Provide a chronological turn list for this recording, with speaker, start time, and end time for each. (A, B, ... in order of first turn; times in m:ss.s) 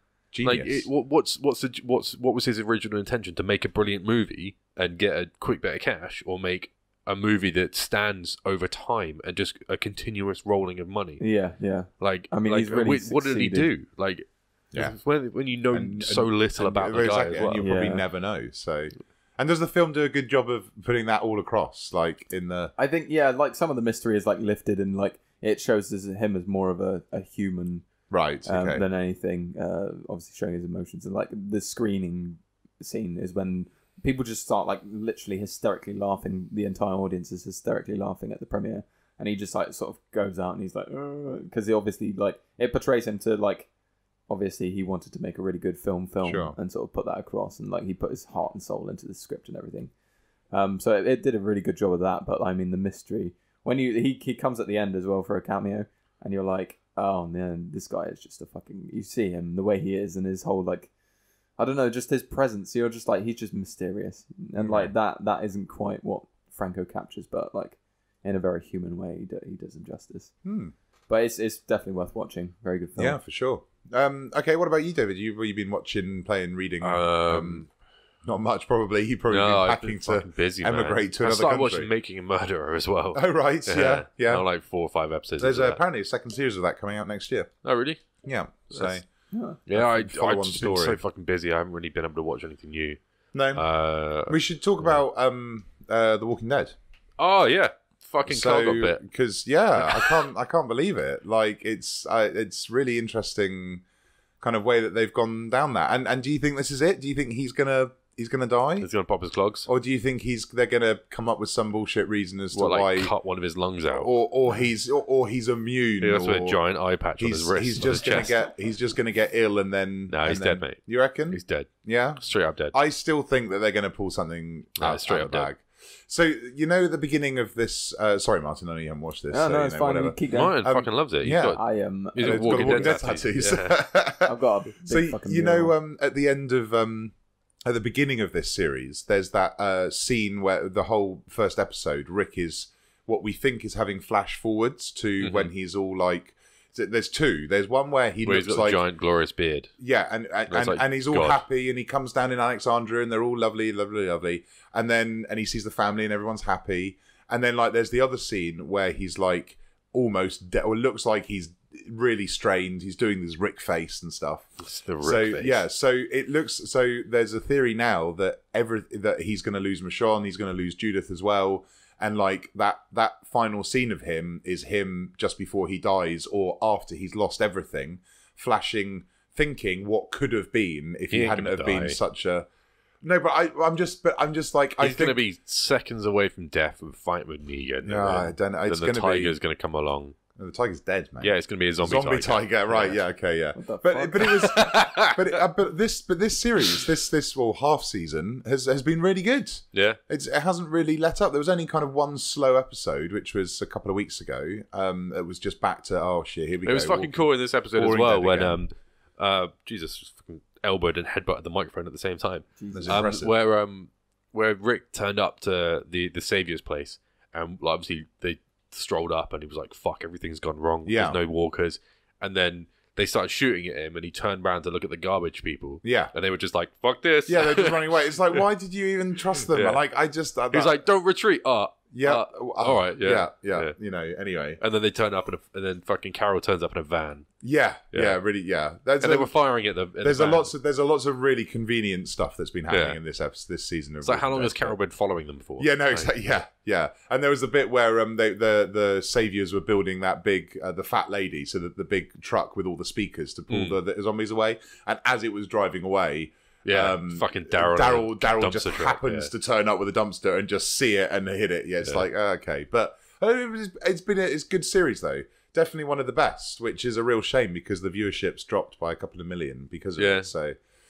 0:00.3-0:00.9 A
0:00.4-0:11.2 B
0:11.2-0:13.7 C
0:12.0-0:17.7 B
0:15.7-0:22.7 A
0:17.6-0:18.0 C
0:22.8-0:27.9 C
0:28.1-0:28.8 A
0:28.4-0:43.7 C
0:44.3-0:49.9 C
0:46.2-0:46.6 A
0:50.5-1:00.9 C
1:01.6-1:10.3 C
1:04.6-1:04.9 A
1:10.4-1:10.7 A
1:11.1-1:13.2 C
1:13.0-1:17.7 A
1:16.8-1:17.7 B
1:18.2-1:21.9 A
1:19.3-1:25.8 B
1:23.1-1:24.5 A
1:25.4-1:27.5 A
1:27.6-1:29.0 B
1:28.2-1:29.1 A
1:29.3-1:29.6 C
1:29.7-1:33.0 B
1:29.7-1:31.0 A
1:33.3-1:33.6 A
1:33.5-1:35.0 B
1:34.2-1:36.8 A
1:37.2-1:39.0 B
1:38.3-1:43.8 A
1:39.8-1:40.2 B
1:44.4-1:48.9 A
1:48.8-1:49.7 B
1:49.7-1:53.1 A
1:52.5-1:54.1 B
1:53.9-1:56.6 A
1:56.0-1:58.4 B
1:57.2-2:11.6 A
2:00.1-2:02.8 B
2:04.8-2:05.5 B
2:09.3-2:10.6 C
2:10.3-2:11.6 B
2:11.4-2:13.0 C
2:12.2-2:13.8 B
2:12.2-2:28.8 A
2:14.2-2:15.7 C
2:25.2-2:25.5 B
2:28.3-2:29.7 B
2:29.8-3:02.5 A
2:30.5-2:31.4 B
2:44.6-2:45.6 B
3:01.1-3:02.0 B
3:03.0-3:05.2 A
3:04.8-3:10.2 B
3:07.8-3:09.4 A
3:10.4-3:28.6 A
3:11.2-3:13.0 B
3:13.6-3:14.2 C
3:14.2-3:15.4 B
3:19.7-3:20.0 B
3:26.6-3:48.5 B
3:32.6-3:33.1 C
3:32.7-3:33.3 A
3:40.9-3:41.2 A
3:45.8-3:46.1 A
3:47.3-3:50.8 A
3:49.5-3:49.8 B
3:50.5-3:53.7 B
3:51.9-3:54.6 A
3:54.6-3:57.3 B
3:57.4-3:59.3 A
3:57.9-3:58.2 B
3:59.0-4:00.5 B
4:00.0-4:04.8 A
4:02.7-4:03.0 B
4:04.0-4:06.2 B
4:05.6-4:30.6 A
4:13.5-4:13.8 B
4:16.6-4:19.3 B
4:30.0-4:30.3 B